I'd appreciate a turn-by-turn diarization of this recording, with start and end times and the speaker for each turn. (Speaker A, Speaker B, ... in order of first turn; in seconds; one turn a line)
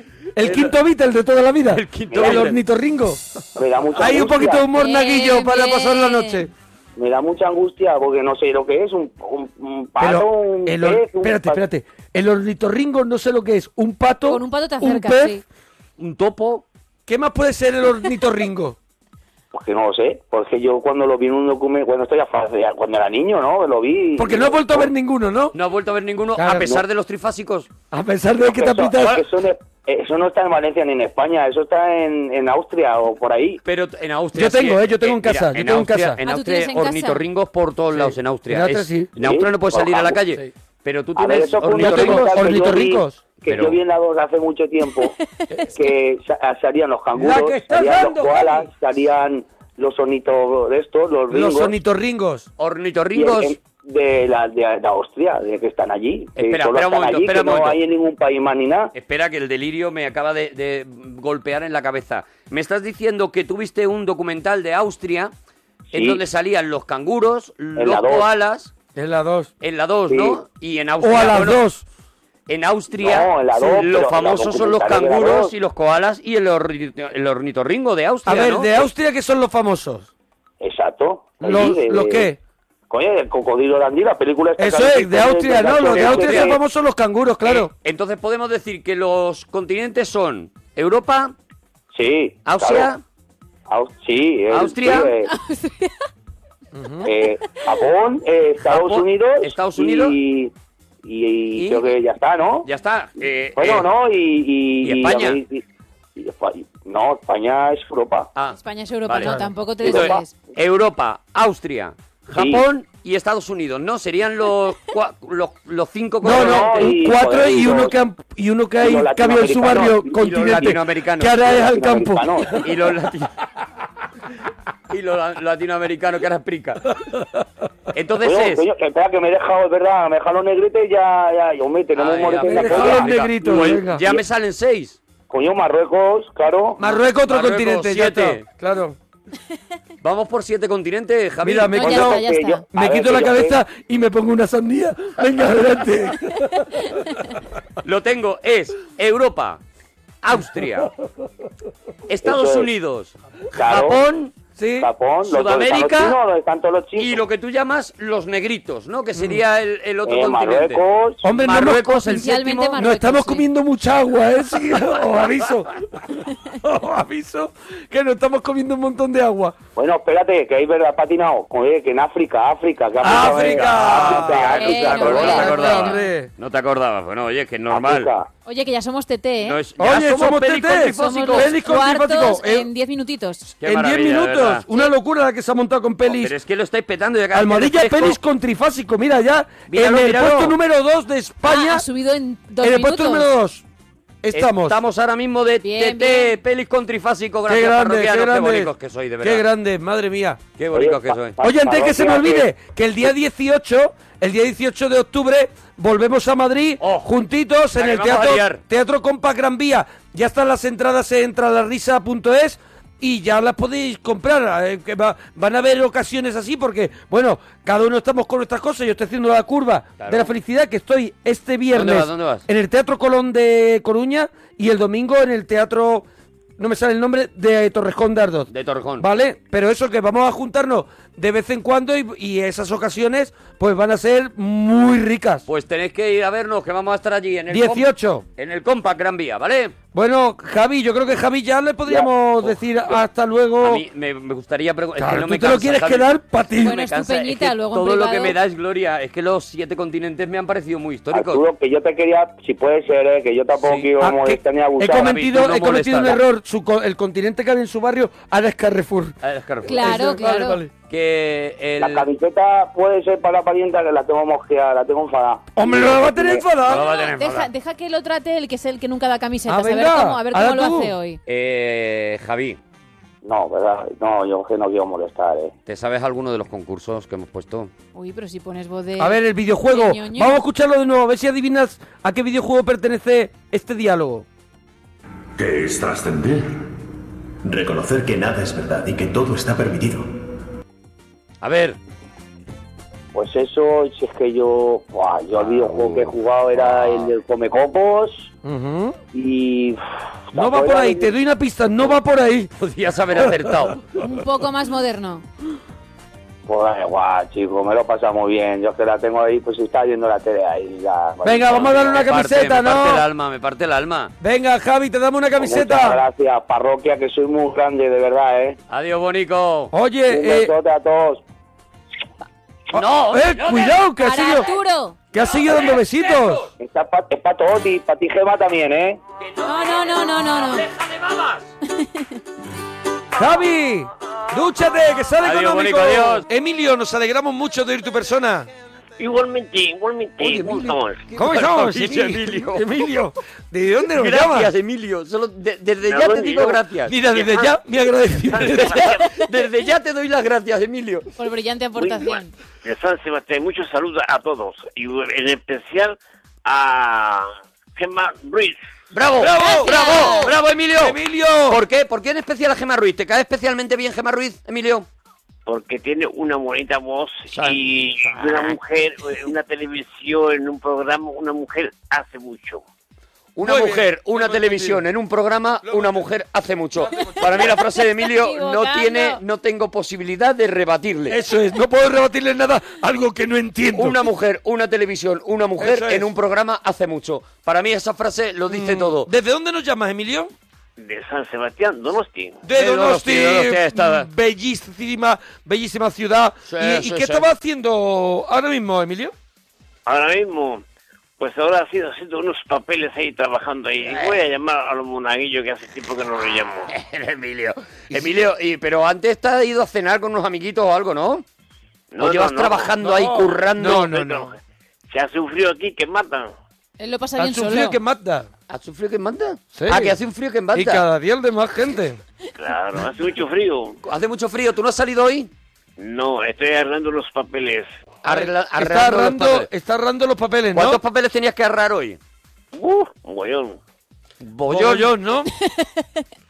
Speaker A: 0.4-3.2
Speaker B: 0.4-0.7
Speaker B: 1.7-2.6
Speaker C: 2.1-2.5
Speaker C: 3.5-4.6
Speaker A: 4.0-6.5
Speaker D: 4.7-6.5
Speaker C: 7.0-11.6
Speaker A: 10.0-15.4
Speaker D: 14.2-15.4
Speaker B: 16.0-16.6
Speaker A: 17.1-18.8
Speaker C: 19.5-24.9
Speaker A: 24.2-25.5
Speaker B: 25.5-27.7
Speaker A: 26.4-26.8
Speaker A: 27.9-29.2
Speaker C: 28.4-33.6
Speaker B: 33.6-42.4
Speaker A: 34.3-36.2
Speaker D: 36.2-37.2
Speaker A: 37.9-39.1
Speaker C: 39.1-40.2
Speaker C: 41.1-45.1
Speaker A: 41.6-43.2
Speaker B: 43.4-43.8
Speaker C: 45.8-51.7
Speaker A: 47.1-48.7
Speaker A: 51.3-52.5
Speaker B: 52.6-53.5
Speaker C: 53.1-58.9
Speaker B: 56.4-57.8
Speaker B: 58.9-65.3
Speaker C: 65.9-66.2
Speaker B: 65.9-68.7
Speaker C: 67.8-68.3
Speaker A: 69.0-69.5
Speaker B: 69.6-71.6
Speaker C: 70.1-70.4
Speaker A: 71.0-71.8
Speaker B: 72.5-78.9
Speaker C: 73.0-75.5
Speaker A: 78.2-80.1
Speaker C: 80.6-82.3
Speaker A: 81.4-82.4
Speaker C: 82.9-86.6
Speaker A: 84.6-87.7
Speaker B: 85.6-86.5
Speaker B: 87.4-91.3
Speaker C: 91.9-92.9
Speaker B: 92.4-93.0
Speaker C: 93.7-95.3
Speaker B: 94.5-95.1
Speaker D: 95.3-95.9
Speaker A: 96.7-97.1
Speaker C: 97.0-102.7
Speaker B: 98.6-100.2
Speaker B: 101.5-101.9
Speaker B: 102.6-103.9
Speaker C: 103.5-105.6
Speaker B: 104.8-105.4
Speaker C: 106.2-108.3
Speaker B: 108.3-116.9
Speaker D: 108.5-110.3
Speaker C: 109.8-110.2
Speaker C: 112.3-112.6
Speaker A: 116.2-122.6
Speaker C: 116.2-118.0
Speaker C: 118.8-120.7
Speaker B: 120.0-121.5
Speaker C: 121.3-122.6
Speaker B: 122.5-123.3
Speaker B: 124.9-126.9
Speaker B: 127.9-128.7
Speaker C: 128.2-134.2
Speaker B: 131.9-135.0
Speaker A: 132.4-134.0
Speaker C: 135.3-136.8
Speaker A: 136.8-138.9
Speaker B: 136.8-138.4
Speaker B: 140.0-142.0
Speaker A: 141.4-146.5
Speaker D: 141.8-142.6
Speaker C: 141.8-143.6
Speaker B: 147.8-149.6
Speaker B: 150.2-150.9
Speaker B: 152.1-154.3
Speaker C: 152.2-152.7
Speaker C: 153.5-154.1
Speaker A: 154.6-154.9
Speaker C: 154.8-157.2
Speaker B: 155.3-156.2
Speaker B: 157.0-162.8
Speaker A: 159.2-159.4
Speaker C: 160.0-161.2
Speaker A: 161.2-165.7
Speaker D: 161.9-163.4
Speaker A: 166.6-169.5
Speaker C: 169.8-175.6
Speaker A: 173.0-176.3
Speaker B: 173.0-178.1
Speaker D: 174.5-176.1
Speaker C: 177.7-178.3
Speaker D: 178.4-179.6
Speaker B: 179.4-181.5
Speaker A: 179.8-182.7
Speaker D: 180.9-183.5
Speaker B: 183.6-184.6
Speaker A: 183.6-186.3
Speaker B: 186.1-188.2
Speaker A: 187.3-191.8
Speaker B: 189.7-190.6
Speaker D: 191.4-193.3
Speaker A: 192.6-193.6
Speaker A: 194.2-194.8
Speaker B: 194.3-199.4
Speaker D: 195.6-196.3
Speaker A: 197.5-198.7
Speaker A: 199.2-200.4
Speaker B: 200.6-201.4
Speaker C: 200.7-202.5
Speaker A: 201.4-226.0
Speaker B: 206.8-207.1
Speaker B: 207.7-208.6
Speaker B: 220.0-220.3
Speaker B: 221.7-222.4
Speaker A: 226.6-235.4
Speaker B: 228.5-229.1
Speaker B: 235.5-239.8
Speaker A: 237.5-238.2
Speaker A: 239.9-243.8
Speaker B: 243.6-246.1
Speaker A: 245.0-246.8
Speaker D: 246.6-248.3
Speaker B: 246.6-251.4
Speaker C: 251.1-255.1
Speaker B: 253.6-253.9
Speaker A: 254.0-259.1
Speaker B: 254.9-256.2
Speaker B: 259.2-260.0
Speaker D: 259.6-260.6
Speaker A: 259.7-260.7
Speaker B: 260.9-262.1
Speaker C: 261.8-266.5
Speaker A: 265.5-266.8
Speaker B: 266.6-267.5
Speaker D: 266.7-271.2
Speaker A: 269.5-270.9
Speaker B: 271.2-272.6
Speaker C: 273.2-275.5
Speaker B: 275.6-277.7
Speaker D: 277.9-280.4
Speaker A: 279.0-284.2
Speaker E: 285.4-286.6
Speaker E: 287.4-290.1
Speaker B: 291.4-291.8
Speaker C: 293.1-298.3
Speaker B: 295.3-297.1
Speaker A: 298.4-298.9
Speaker C: 299.1-299.8
Speaker C: 300.3-301.1
Speaker A: 300.3-302.5
Speaker B: 302.6-303.8
Speaker D: 303.9-305.2
Speaker C: 306.5-312.0
Speaker A: 311.2-313.0
Speaker B: 311.5-314.1
Speaker A: 314.2-316.0
Speaker C: 315.4-318.6
Speaker B: 318.7-319.7
Speaker A: 319.7-320.5
Speaker C: 320.1-321.2
Speaker B: 322.7-323.8
Speaker A: 322.7-324.5
Speaker D: 324.0-325.0
Speaker A: 325.1-326.4
Speaker B: 325.2-326.5
Speaker C: 326.6-329.0
Speaker B: 329.2-331.5
Speaker D: 329.4-330.7
Speaker D: 331.8-332.1
Speaker A: 333.1-338.5
Speaker B: 335.2-336.2
Speaker F: 339.0-341.1
Speaker B: 340.2-342.8
Speaker A: 341.1-344.5
Speaker B: 344.0-346.9
Speaker F: 345.9-347.6
Speaker A: 346.9-348.9
Speaker F: 348.1-348.7
Speaker B: 348.4-351.1
Speaker D: 351.2-352.3
Speaker F: 352.6-358.6
Speaker B: 358.9-361.0
Speaker A: 359.2-361.6
Speaker D: 359.3-360.3
Speaker B: 361.5-364.9
Speaker F: 365.5-372.6
Speaker B: 367.3-368.6
Speaker B: 373.4-381.2
Speaker A: 373.4-374.8
Speaker A: 375.6-376.1
Speaker A: 376.8-377.5
Speaker D: 377.0-379.2
Speaker A: 381.1-384.0
Speaker B: 383.7-389.1
Speaker A: 385.6-386.1
Speaker A: 388.5-390.3
Speaker F: 390.8-392.4
Speaker A: 392.4-399.1
Speaker B: 392.5-394.1
Speaker B: 396.4-397.2
Speaker F: 399.9-400.6
Speaker F: 401.2-406.7
Speaker B: 403.8-404.2
Speaker B: 406.7-411.2
Speaker F: 411.9-412.7
Speaker B: 412.0-413.9
Speaker A: 412.8-414.3
Speaker F: 413.9-414.3
Speaker F: 414.9-416.3
Speaker D: 416.8-417.8
Speaker A: 417.2-418.3
Speaker B: 418.5-420.8
Speaker A: 419.5-420.0
Speaker A: 420.5-422.0
Speaker F: 422.4-423.8
Speaker B: 423.8-425.3
Speaker F: 425.8-427.7
Speaker B: 428.0-429.5
Speaker A: 428.1-430.8
Speaker B: 430.5-432.0
Speaker F: 432.6-433.6
Speaker B: 434.2-434.9
Speaker A: 434.5-435.3
Speaker D: 435.4-436.0